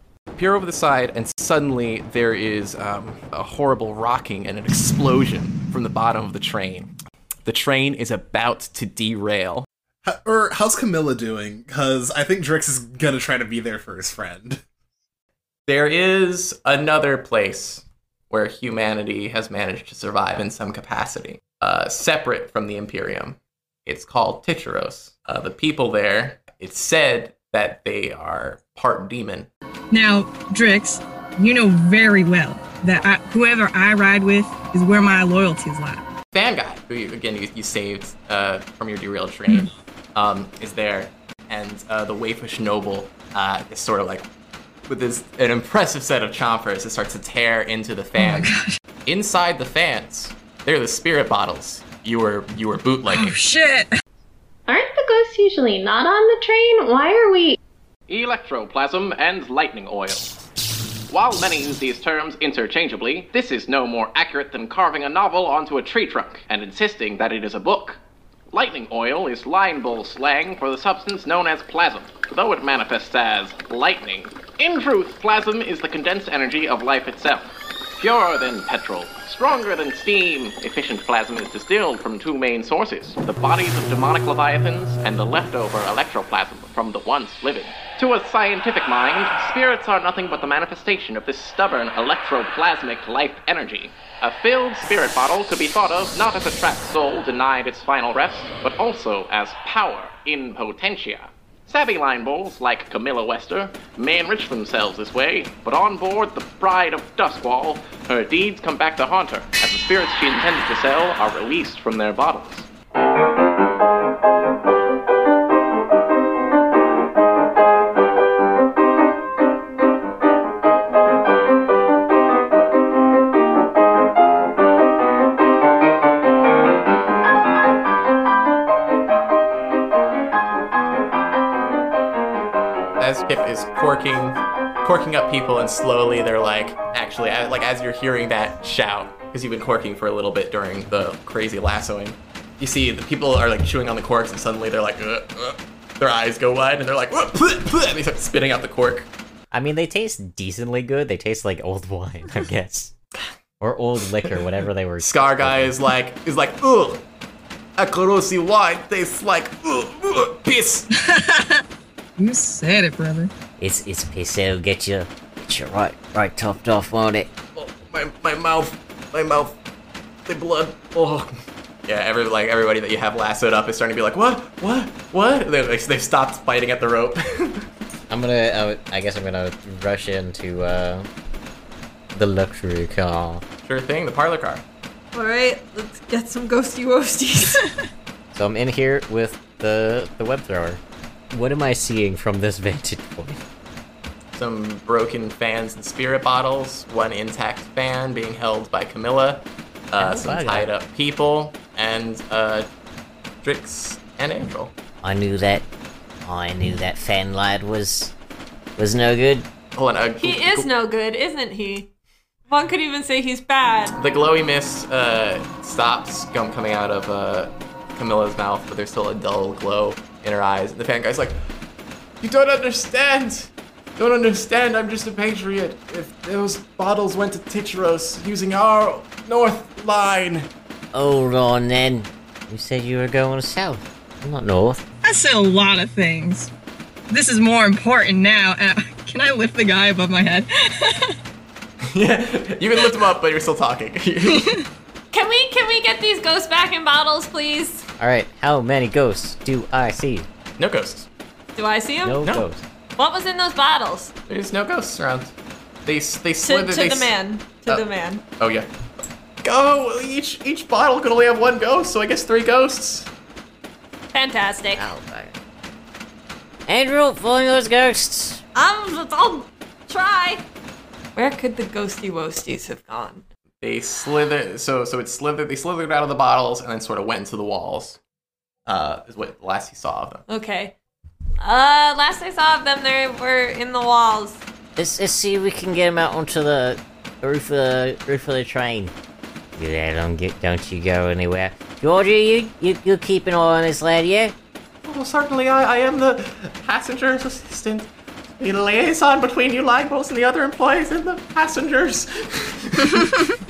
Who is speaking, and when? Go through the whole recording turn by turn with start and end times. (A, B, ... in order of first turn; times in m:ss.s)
0:00.4-0:06.9 A
0:07.4-0:09.6 A
0:10.0-0:14.6 B
0:15.6-0:29.5 A
0:29.9-0:36.0 C
0:36.3-0:44.3 A
0:44.9-0:48.5 A
0:48.2-0:48.8 C
0:49.0-0:53.4 A
0:53.1-0:53.9 C
0:54.7-0:57.6 D
0:58.1-1:00.3 E
1:01.1-1:08.0 E
1:08.5-1:52.7 E
2:13.0-2:29.1 A
2:29.5-2:32.9 F
2:33.6-2:35.7 F
2:35.0-2:37.0 A
2:37.8-2:40.9 A
2:41.0-2:41.6 C
2:42.2-2:43.3 C
2:43.6-2:47.3 G
2:47.5-2:49.5 A
2:50.3-2:57.7 A
2:58.1-3:01.1 F
3:02.1-3:03.4 F
3:03.6-3:04.6 A
3:05.1-3:07.7 H
3:08.3-3:10.8 F
3:11.3-3:13.4 F
3:14.3-3:22.7 A
3:20.0-3:20.6 F
3:20.0-3:20.6 G
3:23.4-3:24.7 A
3:25.0-3:25.7 G
3:26.2-3:28.1 G
3:28.8-3:29.5 G
3:29.7-3:30.7 A
3:30.2-3:31.9 H
3:32.5-3:34.0 H
3:34.0-3:41.4 A
3:42.2-3:50.5 A
3:50.9-3:54.8 G
3:55.0-3:56.5 C
3:57.1-4:01.2 C
4:01.9-4:04.6 A
4:04.3-4:04.6 C
4:05.1-4:07.8 H
4:08.0-4:10.3 F
4:10.6-4:11.1 A
4:11.6-4:12.2 H
4:12.0-4:12.6 F
4:13.0-4:14.1 H
4:14.3-4:15.3 A
4:15.8-4:17.1 A
4:16.4-4:18.2 H
4:18.4-4:18.7 A
4:19.4-4:23.1 A
4:24.1-4:24.9 H
4:24.8-4:25.3 G
4:26.7-4:28.4 G
4:28.5-4:30.4 H
4:31.2-4:33.2 H
4:33.6-4:38.0 A
4:38.6-4:40.2 A
4:40.3-4:40.7 H
4:41.4-4:44.4 H
4:44.8-4:48.9 G
4:49.6-4:54.3 G
4:54.8-5:03.0 A
5:03.0-5:03.3 C